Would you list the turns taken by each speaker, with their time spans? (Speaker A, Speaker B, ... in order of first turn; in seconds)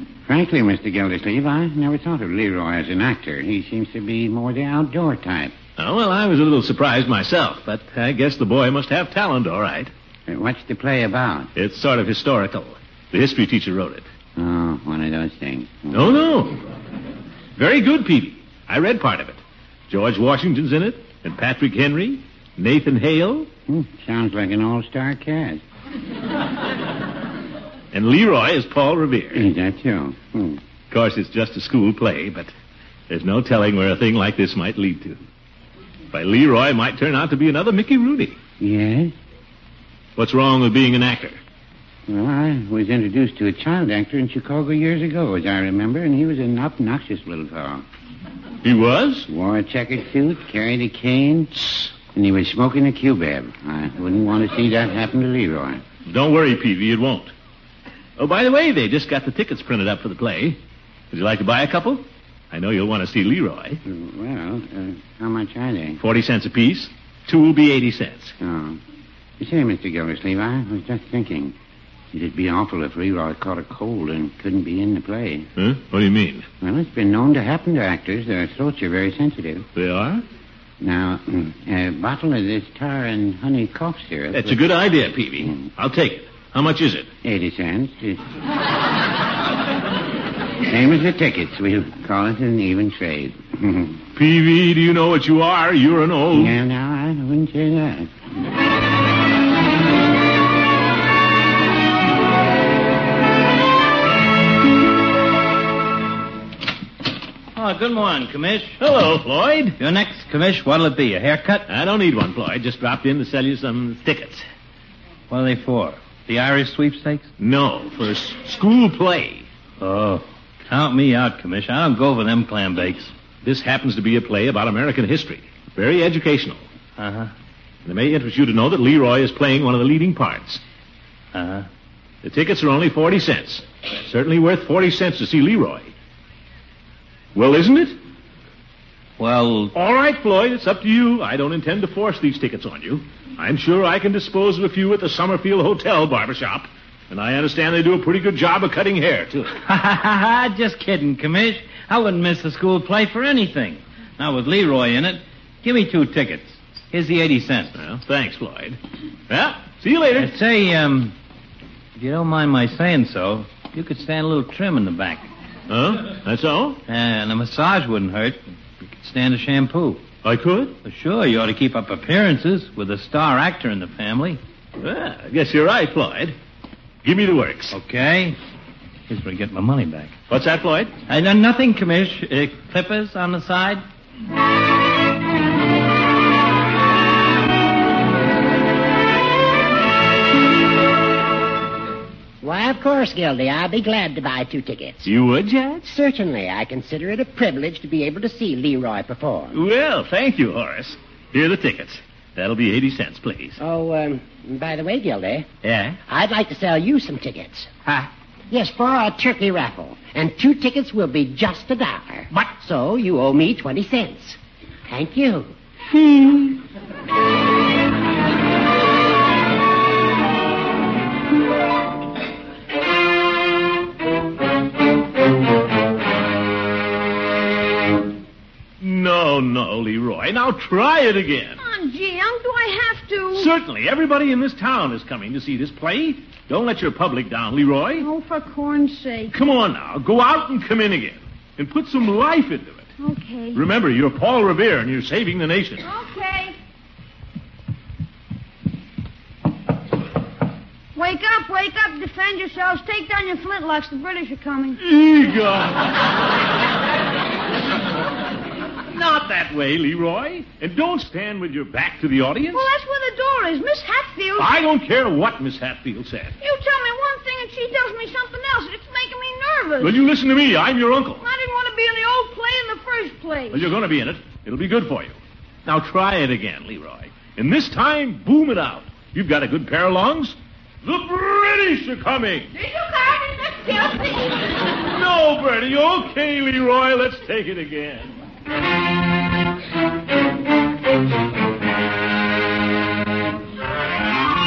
Speaker A: 0.2-5.5, 10.3-11.5, 14.3-16.2, 23.7-25.6, 29.3-30.6, 38.6-39.1, 42.1-47.8, 49.3-55.8, 63.8-66.0, 68.4-68.8, 69.4-71.5, 72.1-75.5, 76.6-79.6, 80.8-84.6, 87.2-88.2, 90.7-94.0, 96.3-98.1
Speaker B: 5.8-9.9, 11.6-14.1, 15.9-16.6, 17.6-23.5, 27.9-29.4, 30.9-32.5, 33.1-35.2, 36.1-38.4, 40.2-41.4, 48.6-49.3, 56.1-57.3, 58.2-60.6, 61.1-63.8, 66.0-68.3, 75.6-76.5, 79.8-80.2, 84.3-87.1, 94.1-96.6, 108.8-109.8, 111.7-114.5, 117.4-119.5, 123.4-126.6, 127.8-130.6, 132.2-135.9, 137.3-137.9, 139.7-149.6, 157.8-160.3, 165.7-166.8, 170.2-170.8, 174.8-176.4, 177.0-177.8, 180.3-180.9, 195.0-195.9, 199.5-203.6, 205.6-206.0, 228.8-231.6, 233.3-238.1, 239.3-242.9, 243.5-245.8, 254.8-256.0, 258.9-262.7, 264.4-266.4, 269.8-271.2, 273.5-282.5, 284.6-288.1
Speaker C: 107.5-108.8, 109.8-111.7, 115.3-117.3, 119.8-123.1, 127.0-127.3, 131.3-131.7, 139.2-139.7, 149.6-157.8, 160.2-161.1, 161.9-165.3, 166.9-170.1, 170.8-174.4, 177.7-178.4, 179.1-180.2, 181.1-183.8
Speaker D: 192.4-195.1, 195.9-199.6, 203.6-205.5, 206.1-207.7, 208.5-215.5
Speaker E: 231.6-233.5, 237.9-239.3, 243.0-243.6, 245.8-246.5, 250.9-254.8, 262.5-264.6, 266.4-270.0, 271.2-273.7